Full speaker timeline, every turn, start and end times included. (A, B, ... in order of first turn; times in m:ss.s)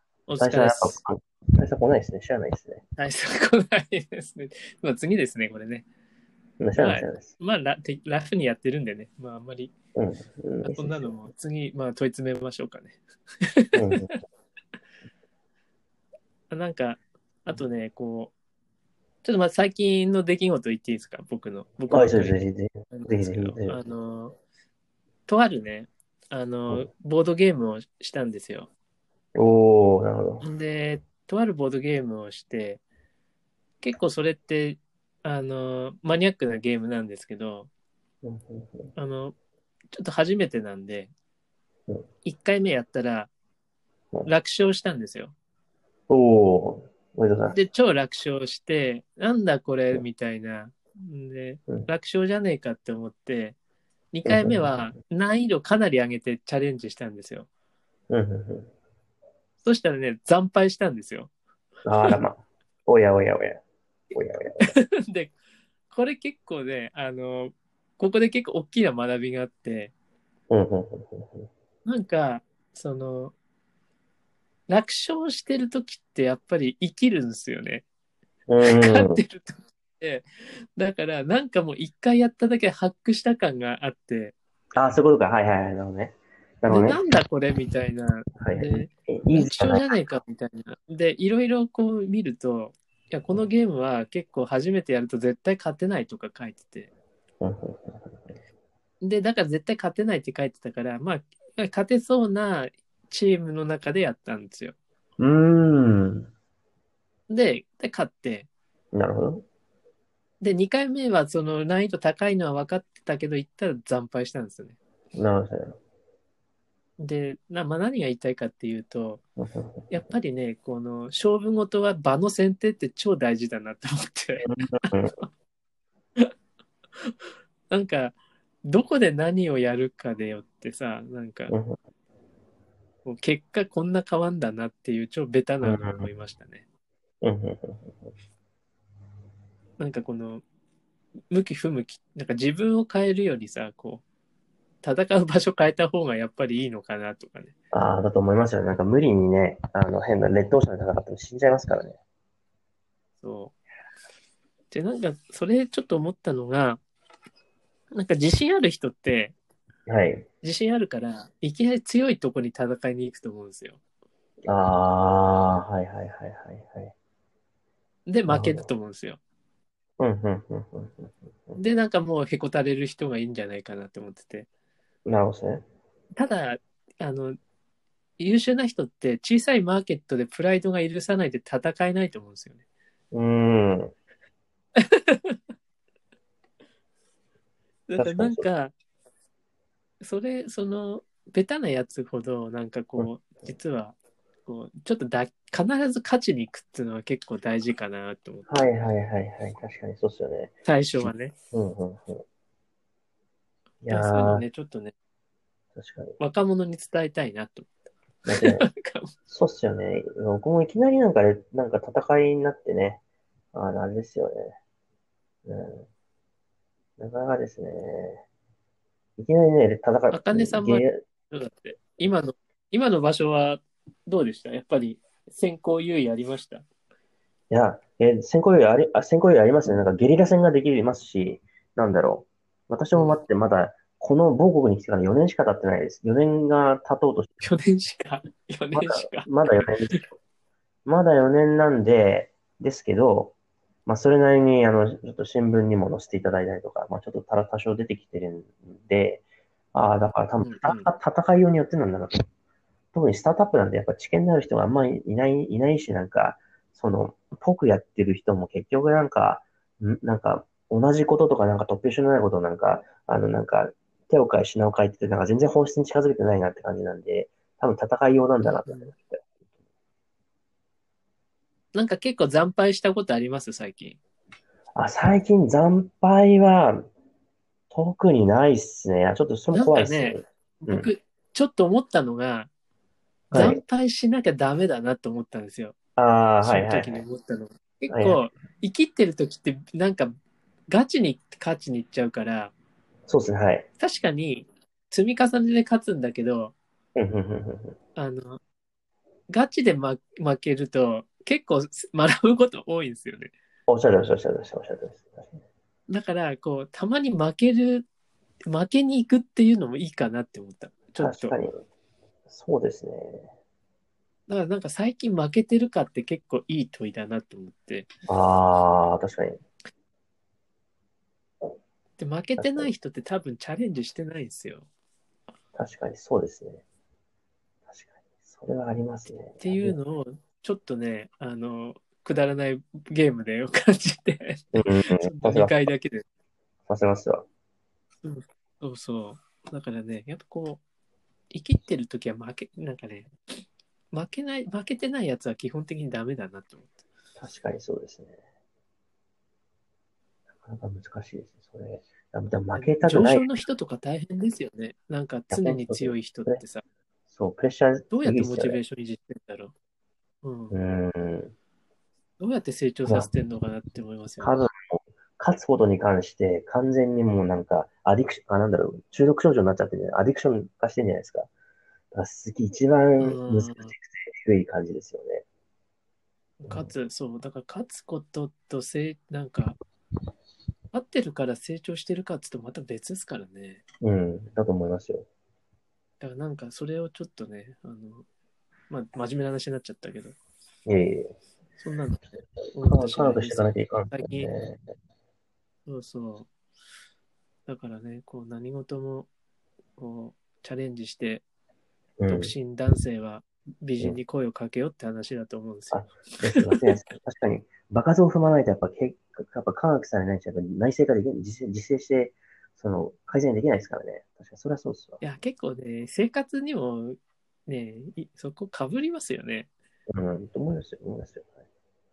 0:00.3-0:01.0 A
0:00.4-0:02.8 B
0:03.0-0:05.8 A
0:06.6-0:07.3 B
0:06.8-0:09.7 A
0:10.0-0:11.2 B
0:10.6-0:14.2 A
0:13.7-0:14.1 B
0:16.5-0:18.3 A
0:19.2-0:22.4 A
0:21.9-0:23.8 B
0:22.9-0:24.3 A
0:25.3-0:28.7 A
0:29.3-0:30.4 B
0:30.4-0:32.8 A
0:33.8-0:37.7 A
0:38.2-0:38.9 B
0:39.0-0:39.3 A
0:39.9-0:41.1 A
0:42.2-0:43.3 A
0:44.2-0:45.3 A
0:46.1-0:47.6 B
0:47.5-0:53.6 A
0:54.1-0:57.5 A
0:54.2-0:54.8 B
0:58.1-0:58.7 B
0:59.6-1:01.3 A
1:01.8-1:03.6 B
1:04.1-1:04.7 B
1:04.7-1:05.3 A
1:05.9-1:09.9 A
1:10.5-1:11.5 B
1:11.8-1:13.3 A
1:14.7-1:17.8 A
1:18.5-1:19.2 B
1:18.6-1:24.4 A
1:24.8-1:27.0 B
1:26.7-1:36.9 A
1:28.4-1:29.9 B
1:37.4-1:38.4 B
1:39.0-1:44.8 A
1:45.2-1:46.3 B
1:47.3-1:48.5 A
1:48.9-1:49.4 B
1:50.4-1:54.8 A
1:55.1-1:55.8 B
1:57.0-1:59.2 A
1:59.4-1:59.9 B
1:59.9-2:05.3 A
2:04.4-2:05.1 B
2:07.7-2:11.5 A
2:11.5-2:11.8 B
2:13.0-2:16.6 A
2:15.6-2:16.1 B
2:17.2-2:18.1 B
2:19.8-2:20.4 A
2:21.3-2:24.0 A
2:24.8-2:27.5 A
2:27.7-2:32.0 B
2:33.2-2:33.5 A
2:34.7-2:36.8 A
2:37.9-2:39.4 A
2:39.9-2:40.2 B
2:40.4-2:43.8 A
2:44.5-2:46.9 B
2:48.1-2:49.2 A
2:48.3-2:48.7 B
2:50.0-2:51.6 B
2:51.6-2:54.5 A
2:55.0-2:55.6 B
2:56.2-2:57.4 A
2:58.2-3:02.6 A
3:03.1-3:03.9 B
3:04.8-3:05.4 A
3:07.9-3:08.7 A
3:08.0-3:08.5 B
3:10.0-3:18.5 A
3:18.5-3:22.2 B
3:20.6-3:21.3 A
3:23.8-3:24.4 B
3:23.9-3:24.9 A
3:25.8-3:26.2 B
3:26.2-3:27.7 A
3:28.2-3:28.6 B
3:28.3-3:29.1 A
3:29.3-3:33.0 B
3:33.5-3:34.6 B
3:35.4-3:35.9 B
3:37.0-3:38.2 B
3:39.2-3:41.0 B
3:40.1-3:46.6 A
3:47.5-3:57.4 B
3:52.9-3:53.2 A
3:57.4-3:59.3 A
3:58.7-4:00.1 B
4:00.8-4:12.2 B
4:10.4-4:10.9 A
4:12.9-4:29.3 B
4:28.4-4:28.9 A
4:31.7-4:34.0 A
4:34.8-4:36.9 B
4:37.7-4:40.9 B
4:39.5-4:42.5 A
4:43.3-4:43.6 B
4:43.3-4:45.7 A
4:46.0-4:47.0 B
4:46.4-4:50.1 A
4:47.9-4:48.2 B
4:50.7-4:52.5 A
4:53.1-4:53.7 B
4:53.8-4:56.5 A
4:57.0-4:57.8 B
4:58.0-4:58.4 A
4:59.3-5:03.3 A
5:03.7-5:05.4 B
5:05.9-5:07.8 A
5:08.5-5:11.4 A
5:11.0-5:11.6 B
5:12.3-5:13.3 B
5:14.3-5:17.9 A
5:18.1-5:19.4 B
5:22.0-5:24.6 A
5:22.4-5:22.7 B
5:25.5-5:26.6 B
5:27.7-5:29.8 B
5:29.4-5:36.0 A
5:34.5-5:35.7 B
5:36.7-5:37.2 B
5:38.0-5:40.6 A
5:41.3-5:43.1 A
5:43.9-5:46.7 A
5:47.2-5:48.2 B
5:50.4-5:53.3 B
5:52.5-5:56.6 A
5:55.3-5:56.4 B
5:57.1-5:58.6 B
5:57.9-5:59.5 A
6:00.2-6:00.5 A
6:00.5-6:01.3 B
6:02.2-6:04.4 A
6:04.2-6:11.3 B
6:11.9-6:15.2 B
6:13.0-6:13.7 A
6:16.4-6:16.7 B
6:16.5-6:19.6 A
6:20.7-6:23.6 A
6:23.8-6:25.0 B
6:26.0-6:28.0 A
6:28.7-6:30.2 A
6:30.6-6:31.2 B
6:31.6-6:34.3 A
6:32.5-6:34.6 B
6:35.7-6:36.3 A
6:37.5-6:39.1 A
6:39.8-6:41.2 A
6:42.0-6:42.3 B
6:42.1-6:46.6 A
6:45.7-6:55.0 B
6:55.0-6:59.5 A
6:59.9-7:01.3 B